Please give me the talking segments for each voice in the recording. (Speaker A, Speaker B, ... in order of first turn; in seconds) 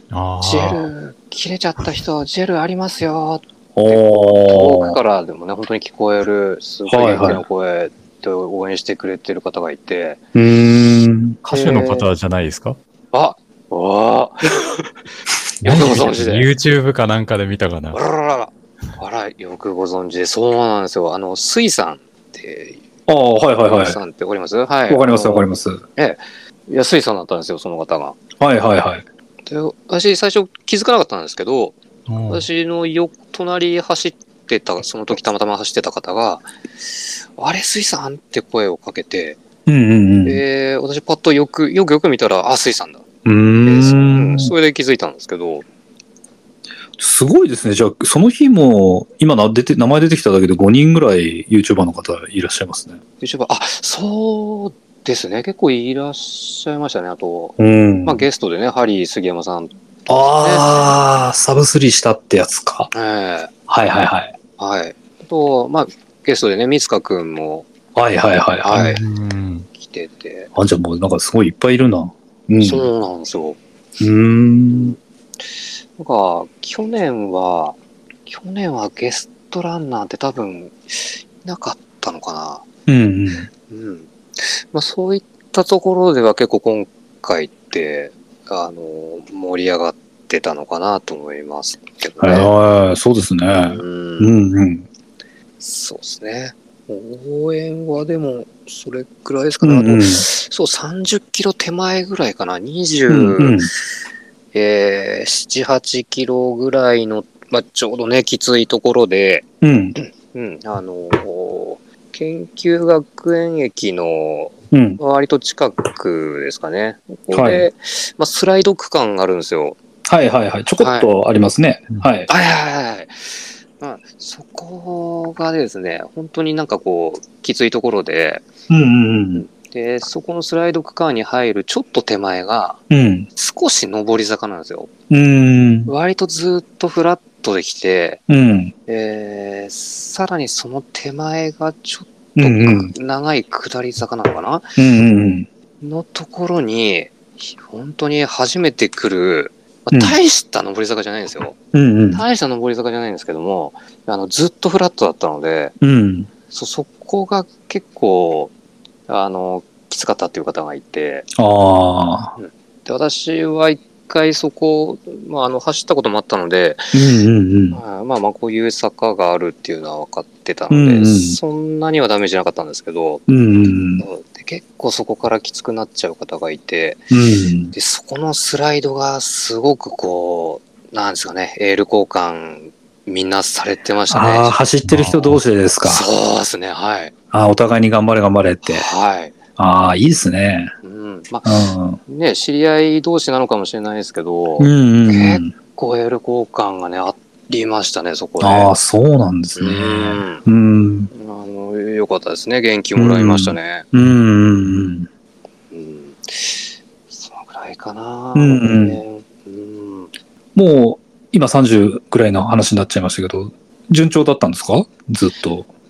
Speaker A: 0.1-0.9, 11.4-12.8, 15.6-18.0, 32.1-32.4, 68.7-69.7, 184.8-185.4
Speaker B: 0.4-10.2, 11.5-12.1, 13.1-14.9, 15.6-16.5, 17.9-22.8, 23.6-28.2, 29.5-36.5, 37.4-39.4, 40.2-43.0, 43.6-45.6, 53.2-61.0, 62.9-63.5, 64.6-67.7, 68.6-69.0, 69.7-70.5, 72.6-73.6, 74.7-75.0, 76.0-82.7, 83.7-92.5, 93.5-94.4, 95.6-103.7, 104.5-119.8, 120.8-121.1, 122.3-128.4, 129.3-132.8, 133.3-134.9, 135.8-138.2, 138.9-144.8, 145.8-151.6, 152.1-155.7, 156.5-158.5, 159.1-161.3, 162.4-167.0, 167.7-173.2, 174.0-177.1, 177.7-184.6, 185.8-187.1, 188.7-189.3, 190.8-198.7, 199.6-200.4, 201.1-203.9, 205.7-210.1
Speaker C: 3.7-5.0, 6.9-7.4, 10.3-11.4, 23.1-24.0, 24.9-25.8, 28.4-29.0, 39.6-40.4, 43.2-44.5, 47.0-53.0, 57.6-58.2, 60.1-62.9, 63.7-64.3, 67.9-69.0, 70.5-72.8, 74.0-75.0, 82.9-83.5, 92.2-94.9, 99.6-100.2, 103.1-103.7, 109.6-110.0, 114.7-115.0, 117.3-117.7, 120.0-122.3, 128.7-129.4, 132.9-133.3, 135.1-135.9, 138.3-138.7, 142.3-142.9, 144.8-145.5, 151.7-152.2, 155.8-156.3, 161.3-162.3, 166.9-167.8, 170.7-171.4, 173.3-174.0, 177.1-177.7, 184.1-186.0, 187.3-188.9, 189.6-190.7, 191.4-192.0, 194.6-195.5, 198.4-201.1, 202.9-205.1, 208.3-209.0, 210.5-215.7